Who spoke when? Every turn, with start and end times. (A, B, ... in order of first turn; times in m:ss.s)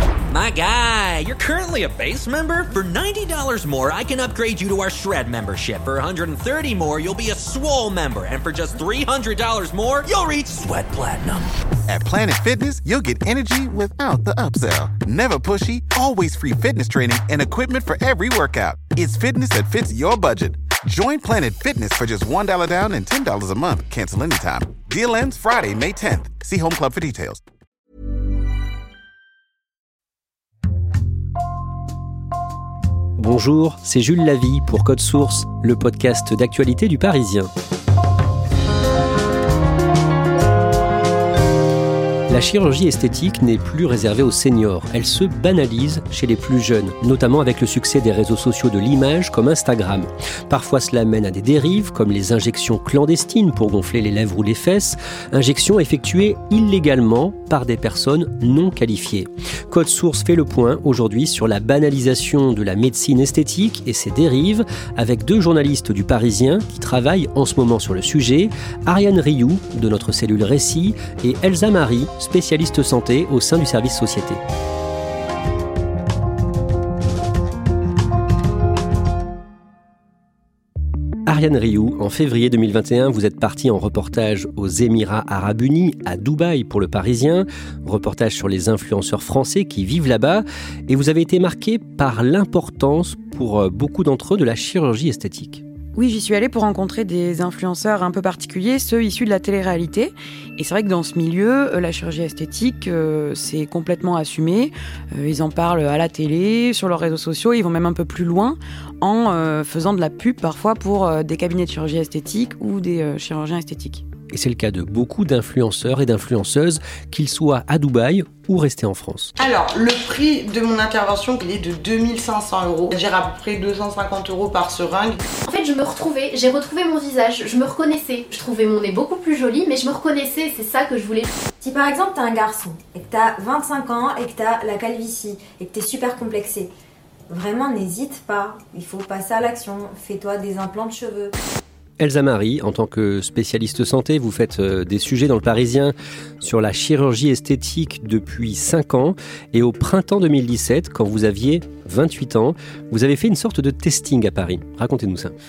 0:00.3-0:11.5 A
0:11.9-0:27.4 B
0:33.2-0:37.5 C
0:42.3-1:14.4 C
1:21.2-1:35.6 C
1:36.0-1:54.0 D
1:54.3-1:59.3 C
1:59.4-2:05.2 E
2:05.4-2:11.3 F
2:11.6-2:16.7 G
2:17.3-2:21.3 G
2:22.0-2:35.3 C